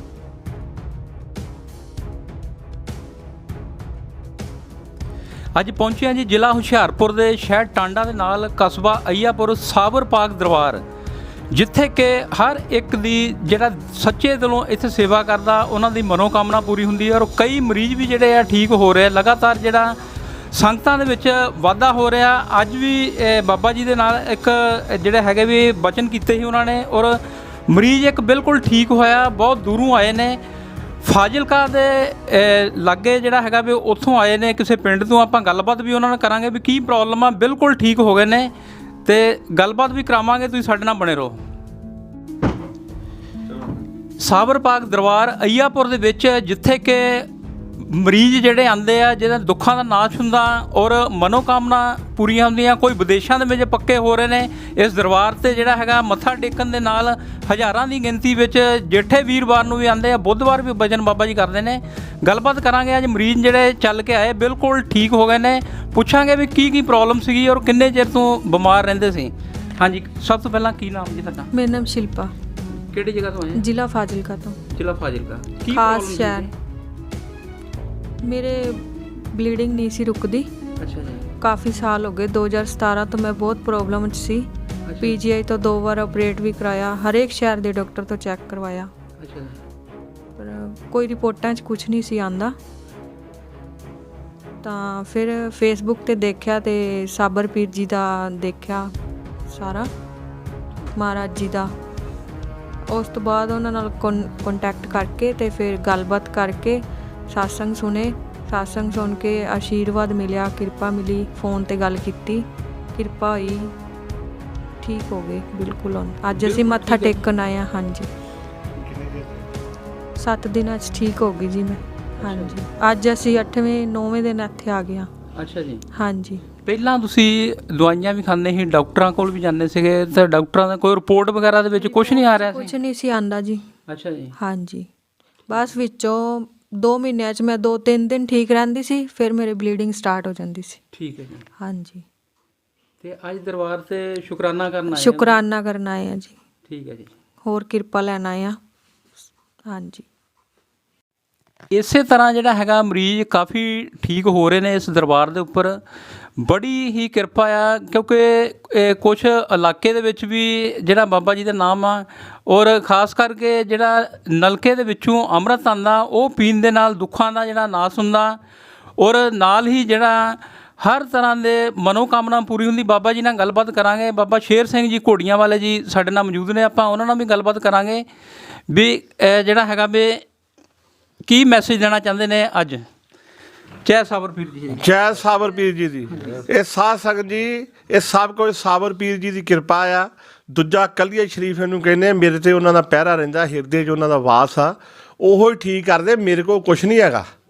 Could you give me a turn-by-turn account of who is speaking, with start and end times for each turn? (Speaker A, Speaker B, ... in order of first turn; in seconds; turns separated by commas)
Speaker A: 5.5-10.8, Speaker A: 11.5-20.0, Speaker A: 20.5-30.4, Speaker A: 31.0-38.5, Speaker A: 39.0-41.4, Speaker A: 44.2-71.5, Speaker B: 71.5-72.3, Speaker A: 72.7-73.6, Speaker B: 73.5-74.6, Speaker A: 74.7-76.5, Speaker B: 75.7-76.5, Speaker B: 78.2-80.5, Speaker A: 80.8-81.3, Speaker B: 81.4-84.5, Speaker A: 84.9-85.2, Speaker B: 85.0-88.9, Speaker A: 89.2-89.6, Speaker B: 90.4-92.5, Speaker B: 94.6-98.9, Speaker B: 99.5-99.9, Speaker B: 100.9-101.7, Speaker B: 102.9-113.7, Speaker B: 114.8-118.1, Speaker A: 116.3-117.2, Speaker C: 118.7-119.4, Speaker B: 120.2-125.1, Speaker A: 122.2-122.6, Speaker A: 125.3-125.8, Speaker B: 125.9-126.4, Speaker A: 126.6-132.7, Speaker B: 131.8-133.7, Speaker A: 133.9-134.3, Speaker B: 134.4-134.9, Speaker B: 135.5-140.8, Speaker A: 140.9-141.4, Speaker B: 141.6-142.1, Speaker A: 143.0-145.4, Speaker B: 144.9-146.3, Speaker A: 146.7-147.1, Speaker B: 147.4-148.6, Speaker B: 149.7-150.1, Speaker A: 151.7-155.8, Speaker A: 156.4-168.4, Speaker A: 169.0-178.1, Speaker A: 178.7-180.2, Speaker A: 181.2-182.8, Speaker A: 183.8-184.9, Speaker C: 184.7-197.3, Speaker A: 186.1-186.4